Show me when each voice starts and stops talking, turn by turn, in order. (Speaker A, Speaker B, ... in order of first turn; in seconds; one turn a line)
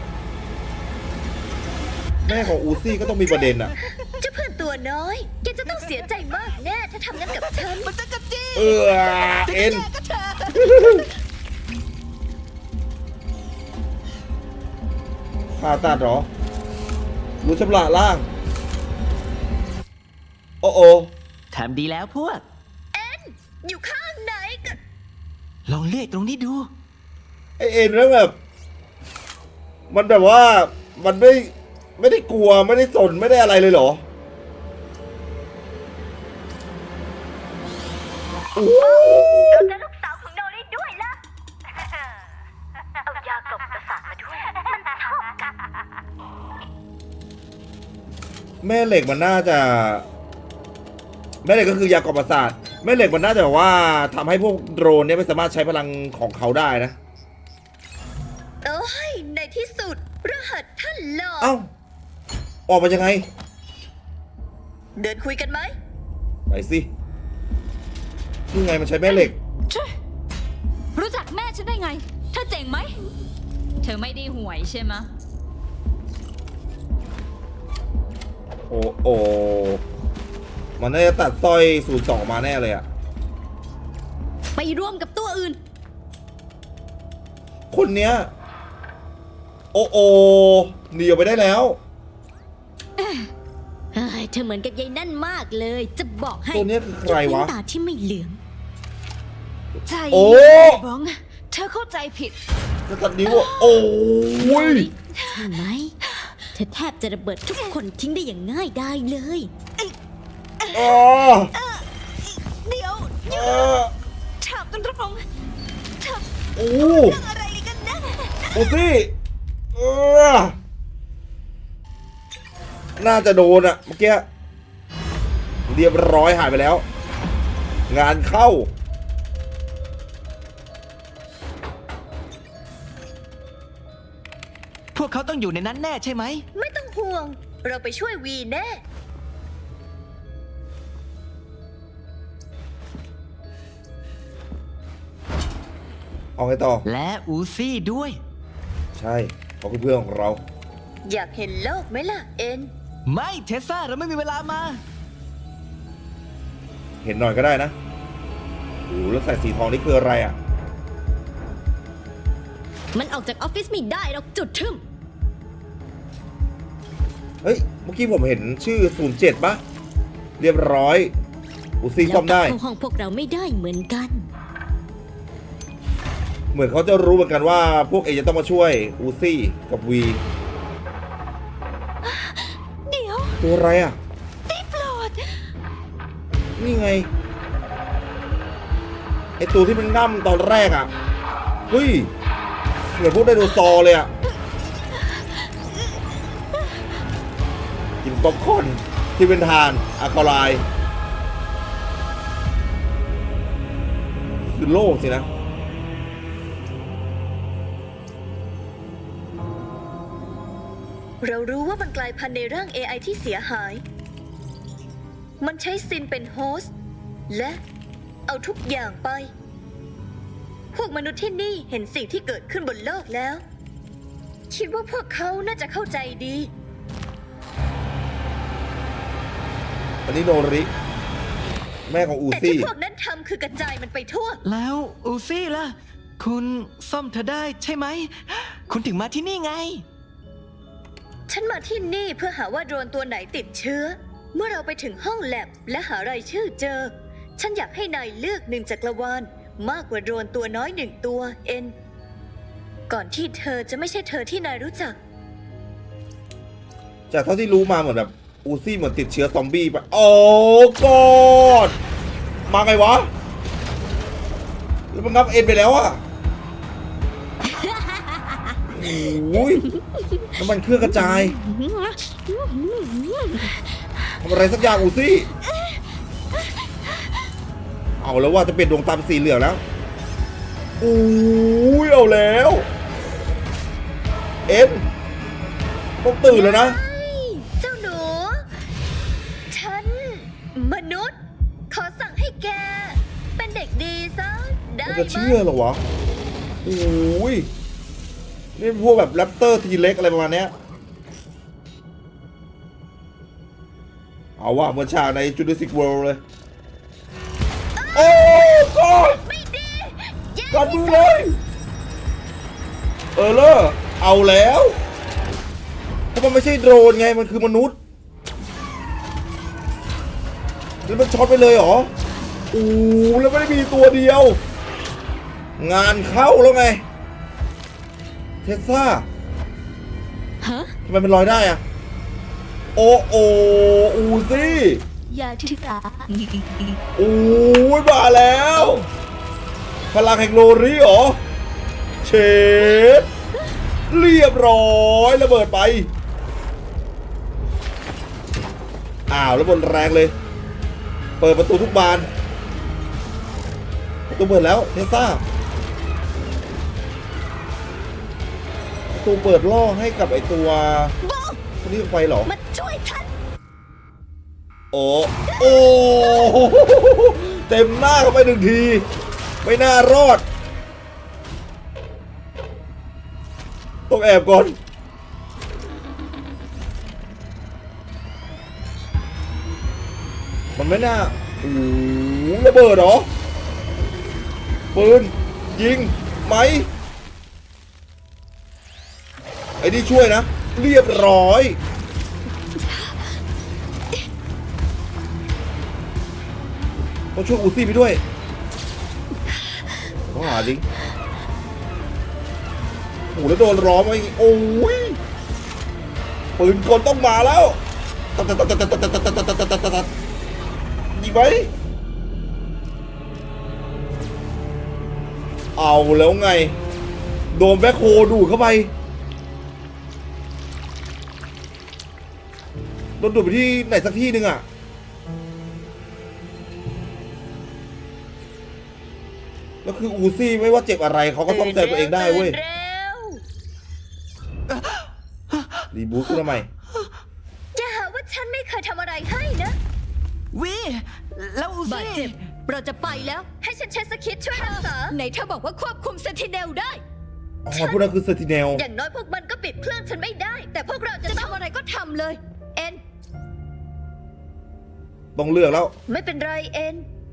Speaker A: 2.2-3.7
Speaker B: 3.5-4.1
Speaker C: 4.2-7.9
Speaker B: 7.3-11.1
Speaker A: 8.5-9.8
Speaker A: 10.5-11.1
Speaker A: 15.5-16.3
Speaker A: 17.4-18.3
Speaker A: 20.6-21.1
Speaker B: 21.5-22.4
Speaker C: 22.9-24.8
Speaker B: 25.7-26.7
Speaker A: 27.6-28.4
Speaker A: 29.9-34.0
Speaker A: 38.5-39.7
Speaker D: 38.8-41.2
Speaker D: 43.1-44.7
Speaker A: 48.6-50.1
Speaker A: 51.4-57.0
Speaker C: 58.6-61.5
Speaker A: 61.4-61.7
Speaker A: 62.7-63.3
Speaker C: 65.0-65.7
Speaker A: 66.5-66.9
Speaker A: 68.5-69.4
Speaker E: 69.1-69.9
Speaker E: 70.9-72.9
Speaker E: 73.8-75.1
Speaker A: 78.7-79.8
Speaker A: 80.8-82.8
Speaker D: 84.5-85.6
Speaker A: 87.7-88.3
Speaker A: 89.7-91.8
Speaker E: 93.0-93.3
Speaker D: 93.9-98.4
Speaker A: 96.5-97.5
Speaker E: 99.8-102.3
Speaker A: 100.1-100.8
Speaker A: 102.9-104.9
Speaker E: 103.3-103.7
Speaker E: 104.6-106.5
Speaker D: 105.2-105.9
Speaker D: 106.5-109.5
Speaker E: 107.5-107.8
Speaker E: 110.6-111.0
Speaker A: 110.7-111.5
Speaker E: 111.5-113.8
Speaker A: 113.3-113.9
Speaker E: 114.4-115.2
Speaker E: 116.0-116.2
Speaker A: 116.5-117.2
Speaker E: 116.8-118.8
Speaker A: 118.5-119.1
Speaker A: 119.7-120.6
Speaker A: 123.0-124.3
Speaker A: 125.7-126.8
Speaker A: 127.9-128.7
Speaker B: 134.9-136.4
Speaker C: 136.5-138.8
Speaker A: 146.4-146.8
Speaker B: 146.8-148.2
Speaker A: 148.9-150.4
Speaker C: 151.0-152.7
Speaker B: 153.1-154.8
Speaker A: 157.0-157.7
Speaker A: 158.9-160.4
Speaker D: 162.9-164.8
Speaker A: 167.4-169.6
Speaker A: 170.4-171.1
Speaker A: 171.8-172.6
Speaker D: 172.0-174.2
Speaker A: 176.5-180.2
Speaker E: 182.0-183.4
Speaker A: 183.4-184.0
Speaker E: 184.5-185.4
Speaker A: 186.6-187.1
Speaker A: 189.4-190.9
Speaker A: 191.7-192.1
Speaker A: 192.9-194.1
Speaker A: 198.0-200.7
Speaker A: 204.5-205.3
Speaker C: 211.2-213.8
Speaker C: 215.4-216.7
Speaker C: 217.3-217.6
Speaker C: 218.3-219.3
Speaker C: 220.7-223.4
Speaker C: 224.5-226.5
Speaker A: 230.1-230.7
Speaker A: 231.9-232.7
Speaker C: 232.3-234.4
Speaker B: 234.4-239.8
Speaker C: 241.3-251.7
Speaker C: 252.9-254.9
Speaker A: 257.1-261.8
Speaker A: 262.5-263.1
Speaker A: 264.9-266.0
Speaker D: 267.5-268.6
Speaker A: 268.7-269.7
Speaker A: 270.4-271.4
Speaker E: 270.9-272.0
Speaker D: 272.4-273.5
Speaker A: 274.2-275.3
Speaker E: 275.5-275.8
Speaker A: 278.0-279.6
Speaker A: 280.8-282.7
Speaker A: 284.5-284.9
Speaker A: 286.0-286.8
Speaker C: 286.2-288.4
Speaker C: 289.5-291.1
Speaker C: 291.7-295.4
Speaker A: 294.9-295.8
Speaker A: 296.6-297.5
Speaker A: 298.6-300.5
Speaker A: 304.4-306.2
Speaker C: 307.8-311.2
Speaker A: 307.9-309.2
Speaker A: 310.5-311.4
Speaker A: 313.1-314.8
Speaker A: 316.1-317.8
Speaker A: 320.9-321.9
Speaker A: 322.5-324.4
Speaker A: 325.6-326.8
Speaker A: 328.4-329.1
Speaker D: 330.4-330.7
Speaker A: 330.9-331.6
Speaker A: 332.8-334.8
Speaker E: 335.1-336.1
Speaker D: 336.1-336.8
Speaker A: 336.9-338.9
Speaker A: 339.9-341.2
Speaker A: 342.0-343.1
Speaker A: 343.9-345.9
Speaker A: 349.1-350.1
Speaker A: 351.2-352.1
Speaker A: 354.1-355.2
Speaker A: 358.9-360.9
Speaker D: 361.0-361.4
Speaker A: 361.6-362.3
Speaker D: 362.2-363.1
Speaker A: 364.7-368.9
Speaker D: 365.3-366.3
Speaker A: 369.4-370.2
Speaker A: 373.9-374.6
Speaker A: 380.6-383.1
Speaker A: 384.7-386.7
Speaker A: 389.6-391.6
Speaker A: 397.1-398.0
Speaker A: 400.1-400.6
Speaker A: 403.1-405.0
Speaker A: 406.4-407.6
Speaker A: 408.1-409.9
Speaker A: 410.9-411.5
Speaker A: 415.6-416.6
Speaker A: 417.3-418.7
Speaker A: 423.0-424.4
Speaker A: 429.6-432.4
Speaker C: 431.3-433.2
Speaker B: 434.5-435.6
Speaker A: 435.7-436.5
Speaker C: 437.5-439.6
Speaker B: 440.3-442.2
Speaker E: 441.6-443.3
Speaker C: 443.4-444.9
Speaker E: 444.3-446.8
Speaker A: 447.4-448.6
Speaker C: 447.5-447.8
Speaker C: 448.5-451.3
Speaker E: 451.0-452.8
Speaker A: 455.1-455.7
Speaker C: 455.9-456.9